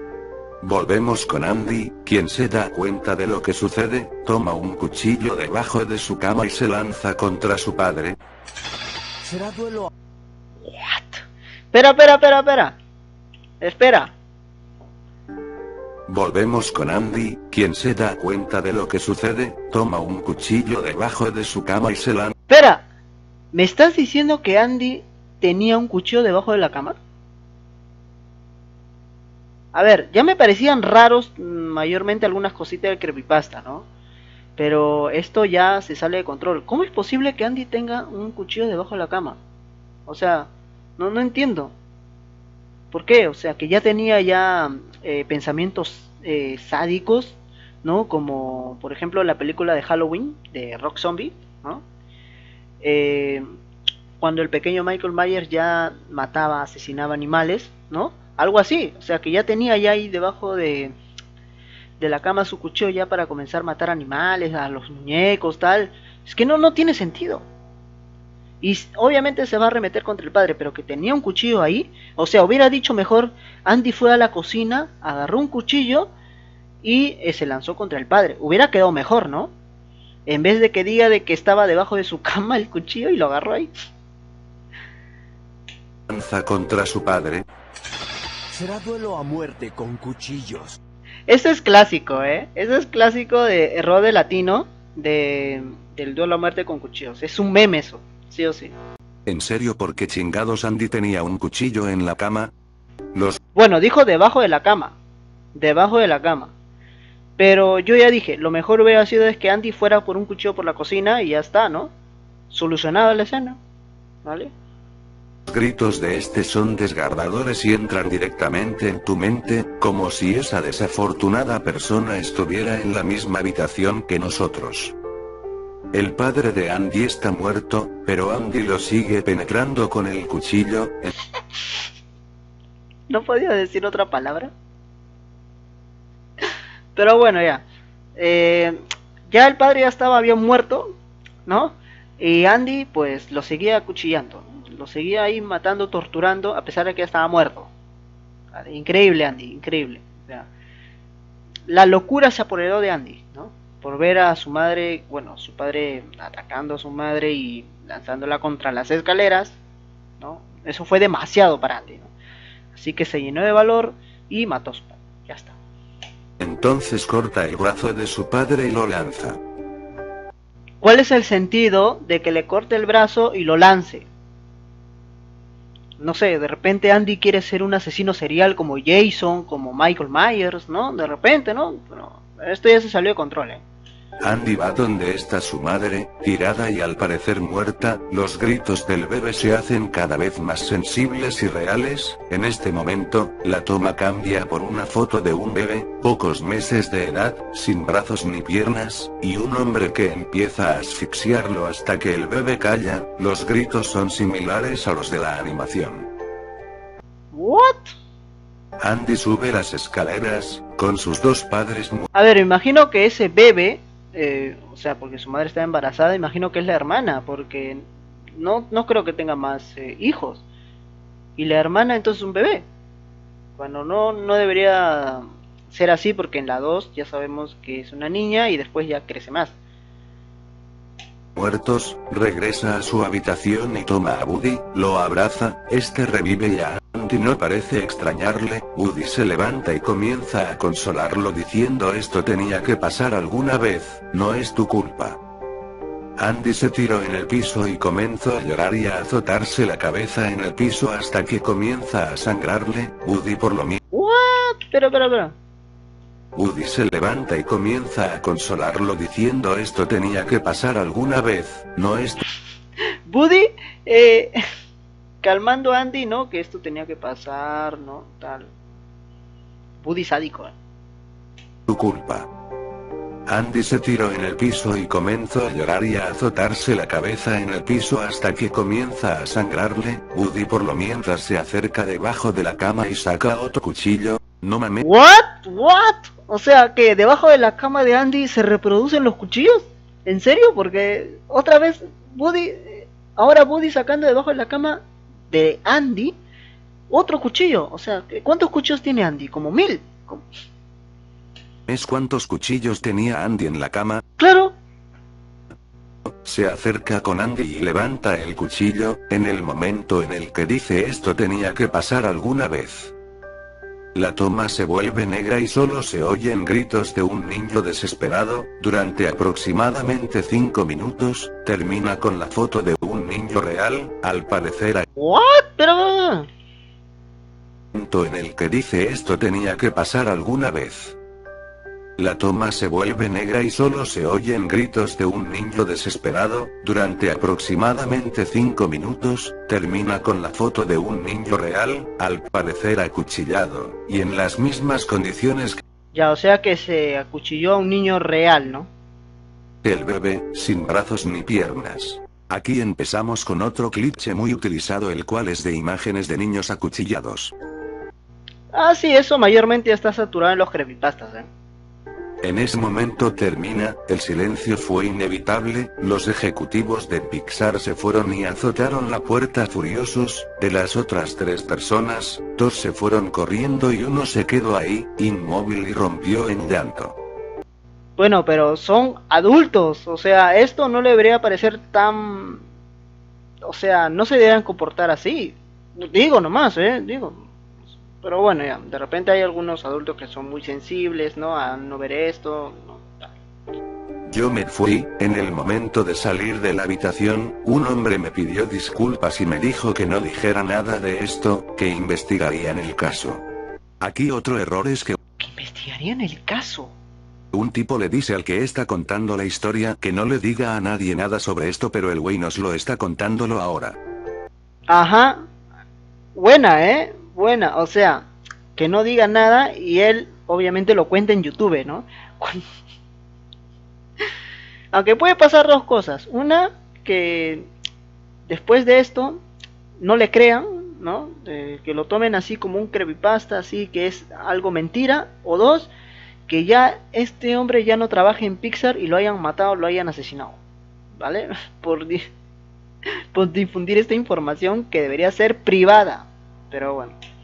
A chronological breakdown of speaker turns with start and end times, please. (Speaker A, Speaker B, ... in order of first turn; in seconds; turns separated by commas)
Speaker A: 0.6-8.2, Speaker B: 9.2-9.9, Speaker C: 10.6-12.8, Speaker C: 13.6-14.1, Speaker A: 16.1-22.4, Speaker C: 22.5-22.9, Speaker C: 23.5-26.9, Speaker C: 29.7-33.9, Speaker C: 34.6-39.4, Speaker C: 40.1-41.7, Speaker C: 42.9-51.8, Speaker C: 52.8-53.5, Speaker C: 54.2-60.9, Speaker C: 62.0-67.4, Speaker C: 68.6-76.1, Speaker C: 76.8-79.5, Speaker C: 80.2-83.7, Speaker A: 86.1-87.4, Speaker B: 88.5-90.8, Speaker C: 91.3-98.7, Speaker A: 99.2-102.5, Speaker A: 103.1-103.4, Speaker C: 103.5-105.0, Speaker C: 105.5-106.5, Speaker C: 107.4-111.9, Speaker C: 112.5-113.6, Speaker C: 114.2-114.5, Speaker A: 115.5-125.0, Speaker A: 125.9-131.1, Speaker C: 133.1-134.5, Speaker C: 136.9-137.6, Speaker C: 138.2-147.7, Speaker C: 148.5-150.5, Speaker C: 151.7-159.6, Speaker C: 160.2-162.1, Speaker C: 162.7-165.6, Speaker A: 166.4-169.4, Speaker C: 170.8-174.1, Speaker C: 176.0-183.6, Speaker A: 184.2-206.1, Speaker C: 207.3-207.9, Speaker A: 208.8-212.1, Speaker C: 212.1-220.4, Speaker C: 221.4-222.7, Speaker C: 223.6-229.5, Speaker A: 231.3-245.2, Speaker A: 246.2-253.8, Speaker C: 253.9-255.3, Speaker A: 256.4-262.2, Speaker C: 263.1-264.4, Speaker C: 265.2-268.5, Speaker C: 269.8-270.5, Speaker A: 271.7-272.3, Speaker A: 273.3-284.9, Speaker C: 284.8-296.1, Speaker C: 296.9-300.2, Speaker A: 301.7-304.0, Speaker C: 304.2-304.5, Speaker A: 306.1-312.9, Speaker A: 313.9-324.9, Speaker C: 324.9-326.3, Speaker A: 327.7-331.0, Speaker A: 332.0-345.6, Speaker C: 345.9-348.7, Speaker A: 349.6-357.3, Speaker C: 358.5-361.3, Speaker A: 362.2-376.9, Speaker C: 378.0-382.4, Speaker C: 383.4-387.3, Speaker C: 388.0-393.1, Speaker A: 394.1-403.2, Speaker A: 403.8-405.0, Speaker C: 405.2-406.7, Speaker A: 407.3-413.8, Speaker C: 414.7-415.2, Speaker C: 416.1-422.4, Speaker C: 424.7-427.5, Speaker C: 428.3-429.2, Speaker C: 429.8-435.7, Speaker C: 436.3-440.4, Speaker C: 441.0-442.1, Speaker C: 443.1-446.9